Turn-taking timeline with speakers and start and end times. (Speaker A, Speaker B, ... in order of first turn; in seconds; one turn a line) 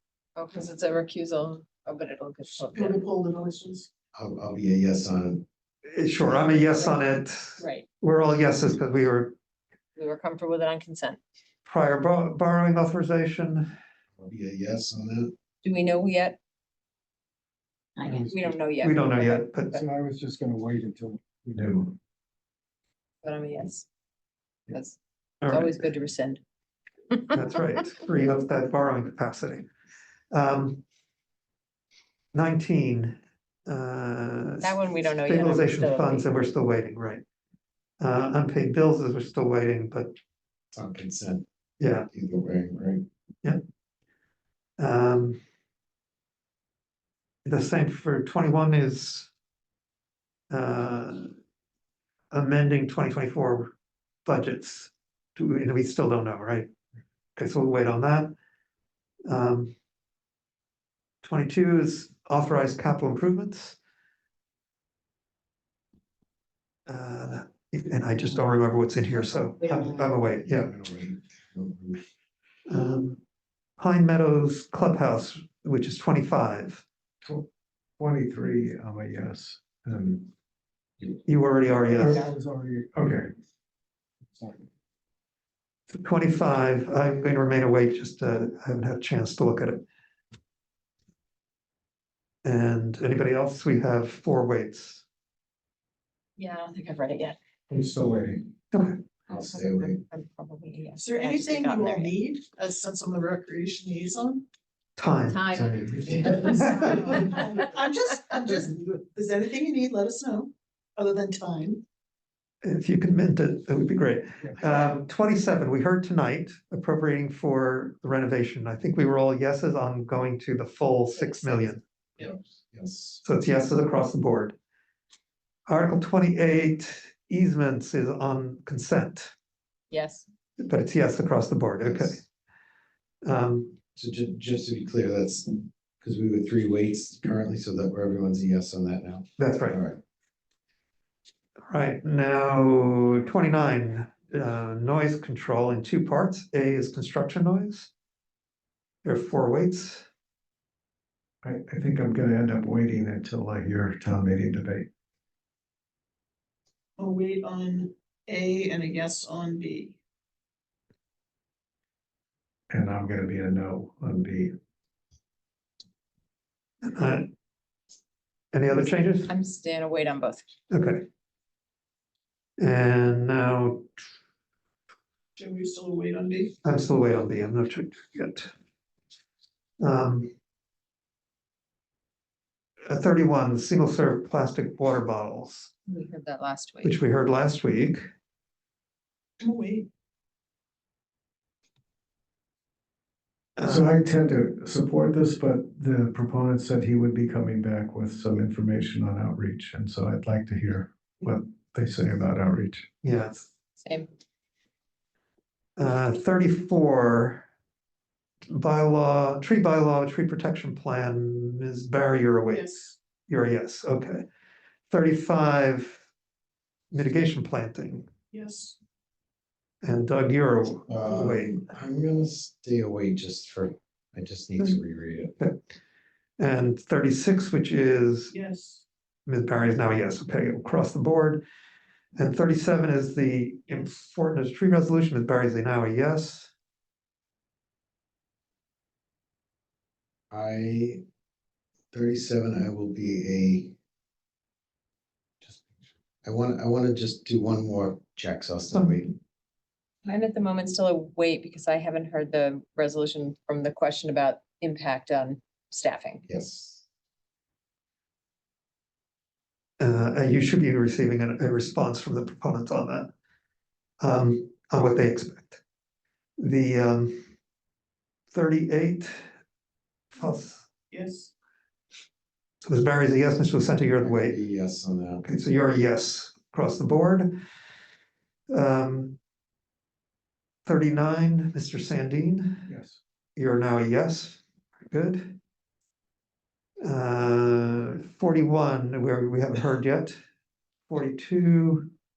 Speaker A: 0.4-3.0
Speaker B: 2.6-3.9
Speaker C: 4.1-5.5
Speaker D: 5.9-9.3
Speaker A: 6.6-7.0
Speaker A: 7.6-7.9
Speaker A: 10.0-11.2
Speaker D: 11.6-13.7
Speaker C: 14.2-15.3
Speaker A: 15.6-16.4
Speaker A: 18.0-19.9
Speaker E: 18.0-18.6
Speaker D: 18.8-19.8
Speaker E: 19.7-22.0
Speaker A: 23.2-23.9
Speaker A: 24.7-26.4
Speaker D: 25.4-25.8
Speaker D: 27.3-29.7
Speaker D: 30.3-30.8
Speaker D: 32.3-37.2
Speaker A: 34.6-36.3
Speaker D: 38.0-40.1
Speaker C: 40.7-41.5
Speaker D: 41.8-42.1
Speaker C: 42.1-43.0
Speaker D: 44.8-45.4
Speaker D: 47.5-49.3
Speaker D: 50.5-51.3
Speaker D: 52.3-53.7
Speaker D: 54.2-56.7
Speaker D: 57.4-58.3
Speaker D: 59.2-59.7
Speaker D: 61.2-63.8
Speaker D: 66.9-70.7
Speaker A: 69.2-70.2
Speaker C: 70.4-72.0
Speaker D: 72.7-73.2
Speaker D: 73.8-76.8
Speaker E: 77.2-77.5
Speaker E: 78.0-80.3
Speaker D: 81.2-82.2
Speaker E: 82.0-83.3
Speaker E: 84.3-84.7
Speaker D: 85.9-89.8
Speaker D: 92.4-95.0
Speaker A: 96.4-97.4
Speaker E: 97.7-98.5
Speaker D: 98.7-99.0
Speaker C: 99.3-100.0
Speaker A: 99.5-102.1
Speaker B: 101.0-104.5
Speaker D: 105.0-105.5
Speaker A: 105.3-107.2
Speaker E: 105.5-106.9
Speaker B: 106.2-111.8
Speaker D: 112.6-121.8
Speaker A: 121.1-121.8
Speaker C: 122.2-123.2
Speaker D: 123.2-124.6
Speaker D: 125.7-129.3
Speaker A: 129.9-130.2
Speaker D: 130.6-132.2
Speaker C: 131.8-132.2
Speaker D: 133.2-133.8
Speaker C: 133.9-140.0
Speaker D: 139.4-139.8
Speaker D: 141.7-147.9
Speaker D: 149.0-150.1
Speaker E: 151.4-154.9
Speaker B: 157.0-160.0
Speaker E: 162.7-164.5
Speaker D: 166.8-167.3
Speaker D: 168.5-169.3
Speaker A: 169.2-170.5
Speaker D: 170.7-171.1
Speaker D: 172.6-174.0
Speaker B: 175.4-176.5
Speaker D: 176.6-178.5
Speaker D: 179.8-180.3
Speaker D: 182.9-185.7
Speaker A: 185.9-187.0
Speaker D: 186.8-188.1
Speaker B: 189.4-189.9
Speaker D: 193.6-193.9
Speaker E: 193.6-202.9
Speaker D: 203.0-203.5
Speaker A: 203.8-204.1
Speaker D: 205.8-207.5
Speaker D: 208.5-214.2
Speaker B: 212.5-213.0
Speaker D: 214.9-216.0
Speaker D: 216.9-218.1
Speaker B: 218.3-218.8
Speaker D: 219.8-221.6
Speaker C: 220.9-225.3
Speaker D: 225.4-225.7
Speaker D: 226.4-228.3
Speaker B: 228.3-228.8
Speaker D: 229.2-231.4
Speaker D: 232.2-236.5
Speaker C: 240.3-241.0
Speaker C: 241.9-243.8
Speaker C: 245.4-249.2
Speaker A: 250.0-256.2
Speaker C: 256.3-256.9
Speaker D: 259.8-263.1
Speaker D: 264.0-265.6
Speaker D: 266.4-267.3
Speaker D: 268.3-269.2
Speaker D: 270.1-270.7
Speaker B: 270.9-271.3
Speaker D: 272.6-274.4
Speaker C: 274.0-275.2
Speaker D: 275.2-277.4
Speaker D: 278.5-279.2
Speaker D: 280.7-282.7
Speaker E: 282.7-283.0
Speaker D: 283.4-285.4
Speaker D: 286.8-290.2
Speaker D: 290.9-291.9